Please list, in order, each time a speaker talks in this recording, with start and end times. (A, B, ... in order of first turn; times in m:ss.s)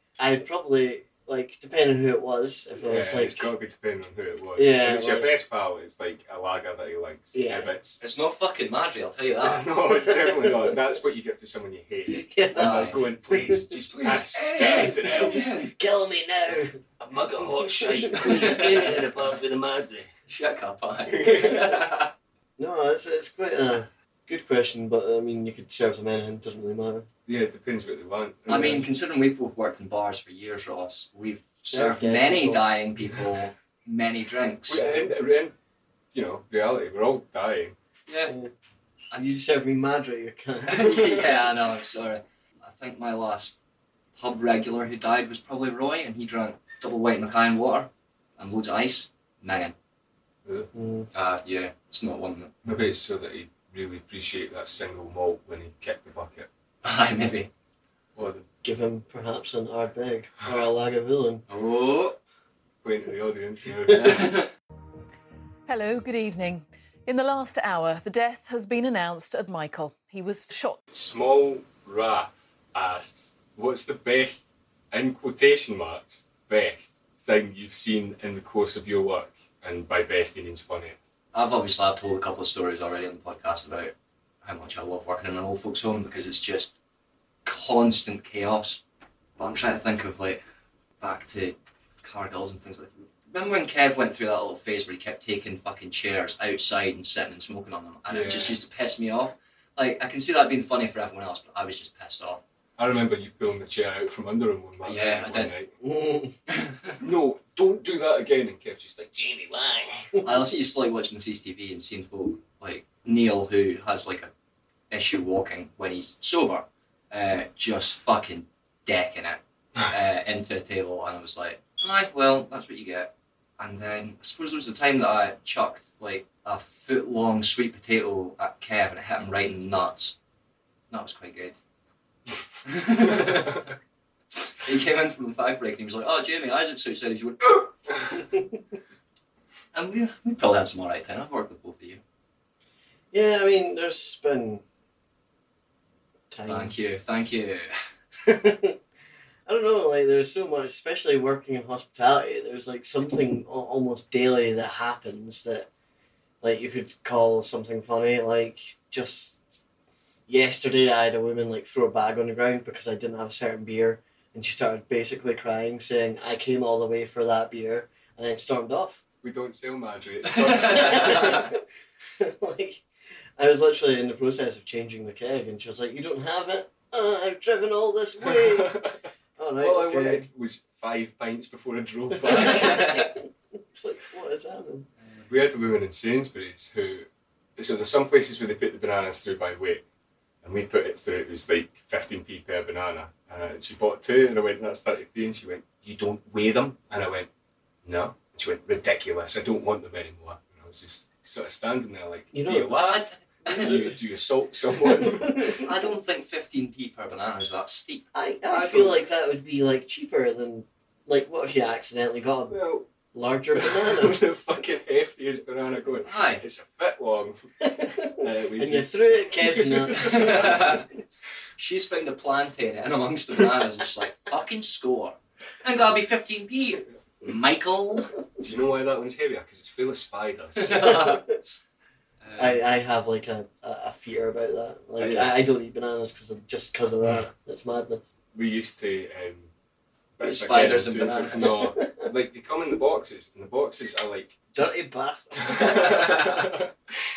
0:00.2-0:03.5 A
0:02.8-0:08.0 B
0:04.6-0:05.3 A
0:07.3-0:07.7 A
0:08.0-0:09.7 C
0:09.4-0:15.6 B
0:09.9-0:10.8 A
0:12.1-0:16.8 A
0:12.5-0:13.0 C
0:14.1-0:15.7 C
0:17.0-0:20.1 B
0:17.4-0:19.0 A
0:18.2-0:19.0 C
0:20.3-0:22.1 C
0:21.1-0:21.7 B
0:22.6-0:27.1 A
0:27.2-0:28.8 B
0:28.5-0:34.9 C
0:31.7-0:32.6 A
0:34.7-0:35.5 B
0:36.1-0:37.8 B
0:38.1-0:38.3 C
0:38.3-0:38.5 A
0:39.1-0:41.2 A
0:40.7-0:43.6 C
0:44.2-0:49.8 C
0:50.7-0:51.1 A
0:51.1-0:52.6 C
0:52.6-0:56.5 B
0:56.8-0:57.5 C
0:58.1-0:58.4 B
0:58.6-1:01.4 A
1:01.5-1:02.2 C
1:02.8-1:04.3 B
1:03.9-1:04.5 C
1:05.7-1:10.8 D
1:10.9-1:21.0 B
1:21.3-1:26.7 C
1:27.4-1:28.8 C
1:29.4-1:30.4 C
1:31.0-1:42.4 C
1:38.1-1:38.6 B
1:42.8-1:45.7 B
1:44.8-1:45.5 C
1:45.8-1:46.3 A
1:46.5-1:46.9 C
1:47.0-1:50.1 B
1:50.2-1:54.3 C
1:54.9-2:10.2 C
2:10.9-2:11.6 C
2:12.6-2:13.7 C
2:14.5-2:17.7 C
2:18.3-2:18.6 A
2:19.7-2:22.0 C
2:23.1-2:24.6 A
2:26.3-2:26.8 A
2:26.4-2:27.7 C
2:28.2-2:28.8 A
2:29.4-2:35.7 A
2:36.4-2:39.6 A
2:40.3-2:49.0 A
2:49.2-2:51.4 B
2:50.4-2:51.4 C
2:50.7-2:51.6 A
2:52.2-2:52.8 A
2:53.4-2:58.8 A
2:58.2-2:59.0 B
2:59.4-3:00.2 A
2:59.6-3:03.0 B
3:02.2-3:04.9 A
3:02.3-3:03.1 C
3:05.3-3:07.0 B
3:07.6-3:09.8 B
3:10.4-3:17.3 B
3:17.8-3:25.6 B
3:22.3-3:22.8 A
3:22.7-3:23.9 C
3:23.5-3:23.9 A
3:25.0-3:25.6 A
3:25.6-3:28.0 C
3:28.1-3:32.6 A
3:28.5-3:29.0 B
3:32.5-3:32.8 B
3:33.1-3:34.2 A
3:33.5-3:37.4 B
3:36.0-3:36.4 C
3:37.6-3:40.8 A
3:38.1-3:40.6 B
3:40.0-3:40.8 C
3:41.6-3:48.1 C
3:48.4-3:51.0 B
3:50.6-3:51.2 C
3:50.8-3:51.3 A
3:52.2-3:52.6 C
3:52.4-3:58.0 A
3:55.0-3:55.3 B
3:58.3-3:59.5 B
4:00.2-4:04.7 B
4:00.2-4:01.6 C
4:01.4-4:02.1 A
4:04.5-4:06.2 A
4:05.4-4:06.7 B
4:05.8-4:06.2 C